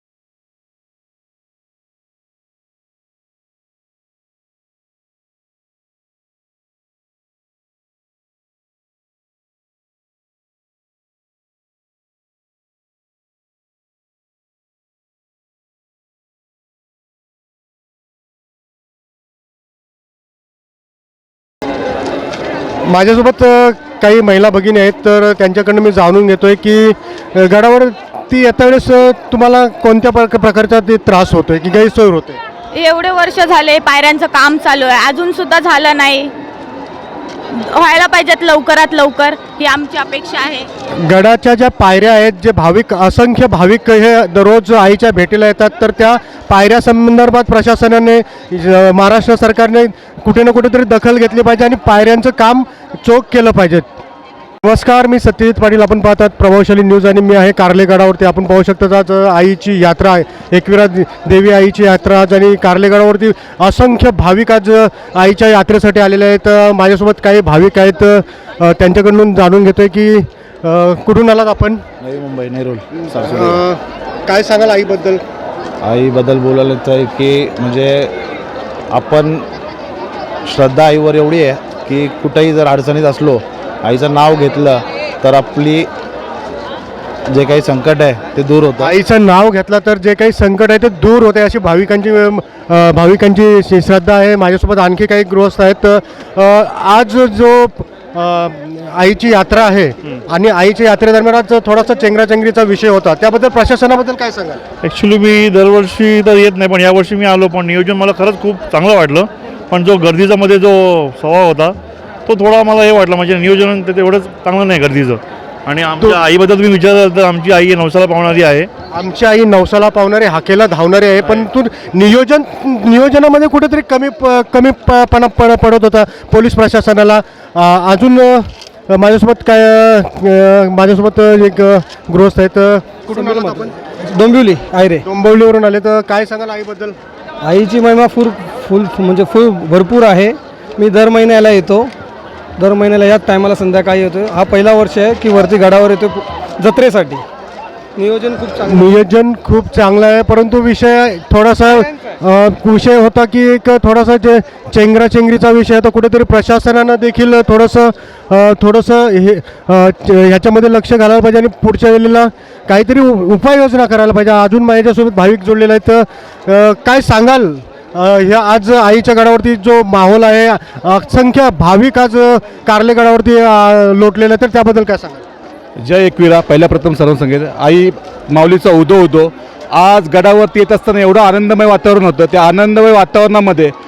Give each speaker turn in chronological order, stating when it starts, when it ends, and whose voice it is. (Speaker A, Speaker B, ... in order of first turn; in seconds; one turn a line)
Speaker A: 22.9-32.4
Speaker B: 32.7-36.3
Speaker B: 37.5-40.7
Speaker A: 41.0-53.9
Speaker A: 54.6-71.8
Speaker C: 72.0-73.6
Speaker A: 73.2-75.2
Speaker C: 75.8-78.2
Speaker C: 78.9-79.5
Speaker C: 80.5-85.9
Speaker C: 87.3-88.9
Speaker A: 88.8-104.6
Speaker D: 104.8-118.7
Speaker A: 118.9-133.7
Speaker E: 133.2-133.5
Speaker E: 134.1-135.0
Speaker A: 135.0-137.0
Speaker E: 137.4-141.9
Speaker E: 142.6-147.2
Speaker E: 148.0-148.8
Speaker A: 148.7-175.2
Speaker F: 175.8-183.7